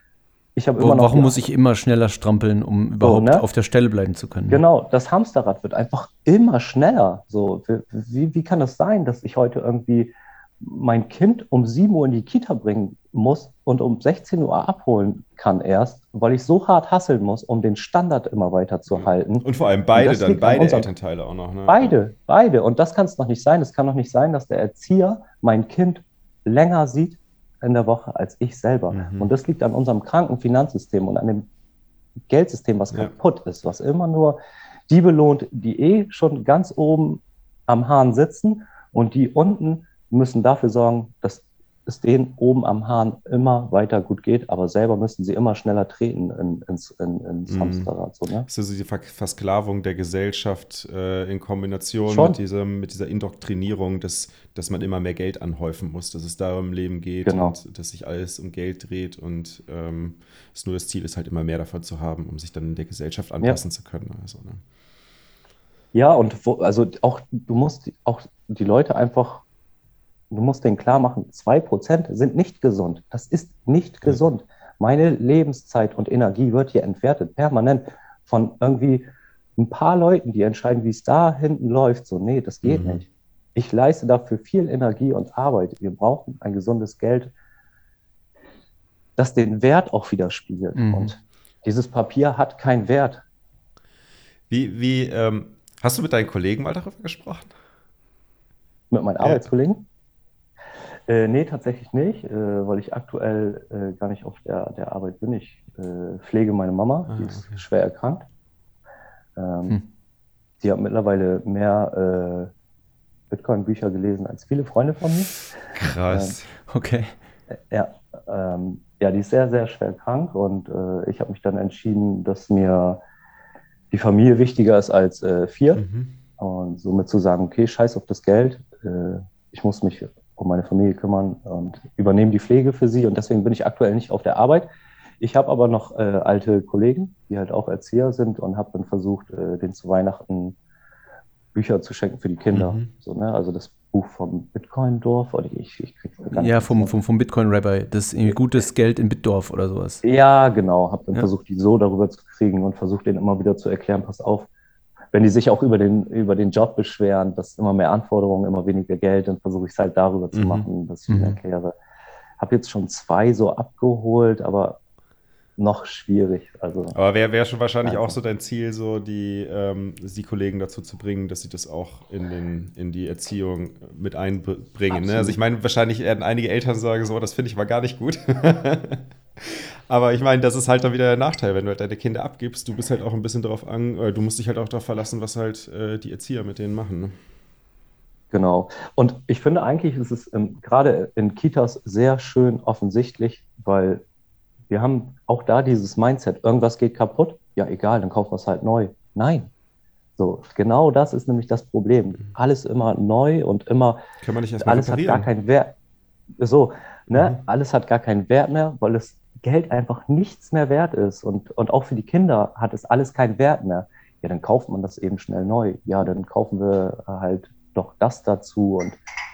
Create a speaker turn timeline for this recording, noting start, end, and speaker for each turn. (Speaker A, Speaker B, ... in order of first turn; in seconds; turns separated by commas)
Speaker A: 0.6-1.4, Speaker B: 0.8-4.6, Speaker A: 3.0-3.5, Speaker A: 4.5-20.9, Speaker C: 18.9-22.0, Speaker A: 21.7-31.5, Speaker C: 28.9-29.3, Speaker A: 32.3-48.5, Speaker C: 47.5-47.9, Speaker C: 48.5-64.6, Speaker A: 52.1-52.4, Speaker A: 57.2-57.6, Speaker A: 65.9-69.4, Speaker A: 70.3-87.3, Speaker C: 82.6-83.0, Speaker A: 89.2-93.2, Speaker B: 90.8-91.1, Speaker C: 94.5-97.5, Speaker A: 98.9-99.9, Speaker C: 99.2-99.5, Speaker A: 101.1-108.2, Speaker C: 107.1-107.6, Speaker A: 109.4-109.8, Speaker A: 110.6-112.5, Speaker A: 113.3-115.3, Speaker C: 115.7-116.5, Speaker A: 116.1-116.4, Speaker B: 116.7-117.1, Speaker A: 117.7-123.0, Speaker A: 123.9-125.8, Speaker C: 125.8-126.2, Speaker A: 126.4-134.7, Speaker A: 135.2-140.6, Speaker A: 141.5-146.9, Speaker C: 142.5-142.9, Speaker B: 146.3-150.0, Speaker A: 150.0-154.5, Speaker A: 155.1-161.7, Speaker C: 160.3-161.3, Speaker A: 162.4-164.8, Speaker A: 165.6-167.0, Speaker C: 166.9-187.2, Speaker A: 167.8-168.2, Speaker A: 174.9-175.4, Speaker A: 188.3-194.0, Speaker A: 194.7-199.5, Speaker A: 200.2-204.0, Speaker C: 204.2-205.3, Speaker A: 204.6-205.7, Speaker A: 206.4-219.0